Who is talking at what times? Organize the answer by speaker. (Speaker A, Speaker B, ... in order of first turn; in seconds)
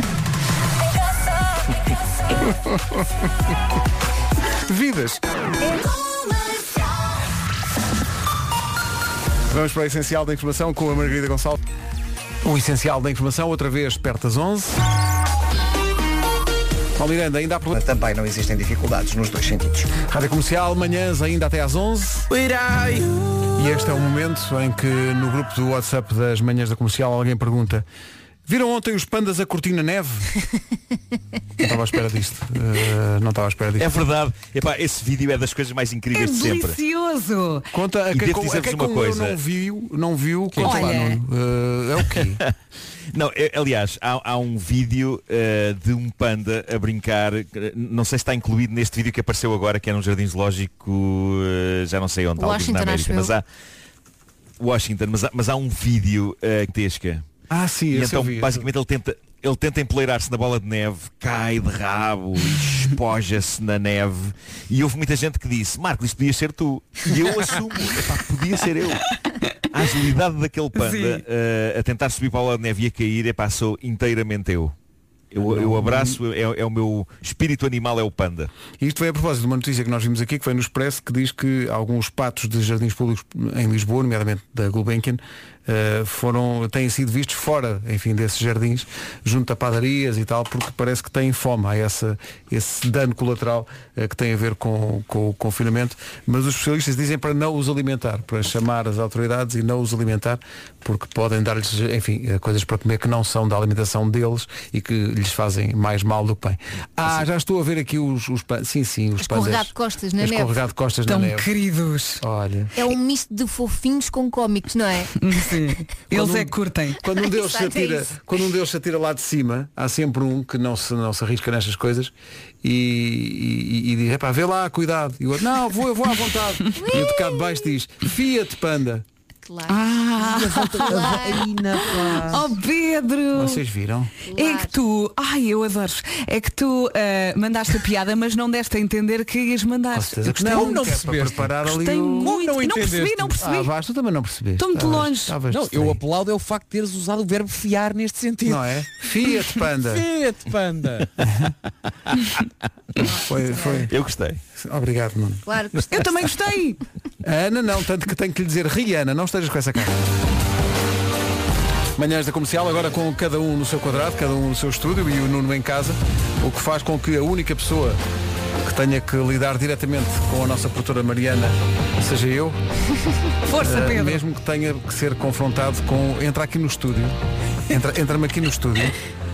Speaker A: 2.5-3.0, 4.7-5.2, 9.5-11.6, 12.4-14.8, 17.0-17.8, 20.0-22.3, 23.6-27.8, 28.5-30.3, 31.6-33.9, 37.7-42.4, 57.5-58.7, 75.4-76.2, 78.8-111.5, 112.2-112.7, 116.1-122.1, 122.6-129.0, 133.3-134.1, 139.9-142.3, 143.4-146.0, 148.4-150.0, 151.2-151.5, 153.1-153.9, 154.6-155.4, 157.2-160.0, 162.0-168.0, 168.6-172.6, 173.6-177.2, 177.7-178.9
Speaker B: 17.7-19.9
Speaker C: 33.8-36.8, 38.1-39.4, 42.1-42.5, 43.1-53.4, 54.6-57.3, 57.9-69.0, 69.7-74.7, 75.3-78.5, 153.9-154.4
Speaker D: 36.1-37.7, 40.6-41.2, 70.7-71.2, 111.1-112.2, 115.2-117.0, 129.7-131.1, 132.3-133.6, 134.3-140.9, 141.7-143.7, 144.6-145.3, 155.9-156.8, 173.4-174.2
Speaker E: 40.5-41.0, 130.2-132.5, 140.4-143.4, 145.5-148.7, 149.7-151.1
Speaker F: 52.4-53.3, 109.2-110.5, 112.7-115.1, 117.1-118.1, 126.7-127.7, 129.4-132.2, 134.2-134.8, 153.1-153.8, 155.4-156.0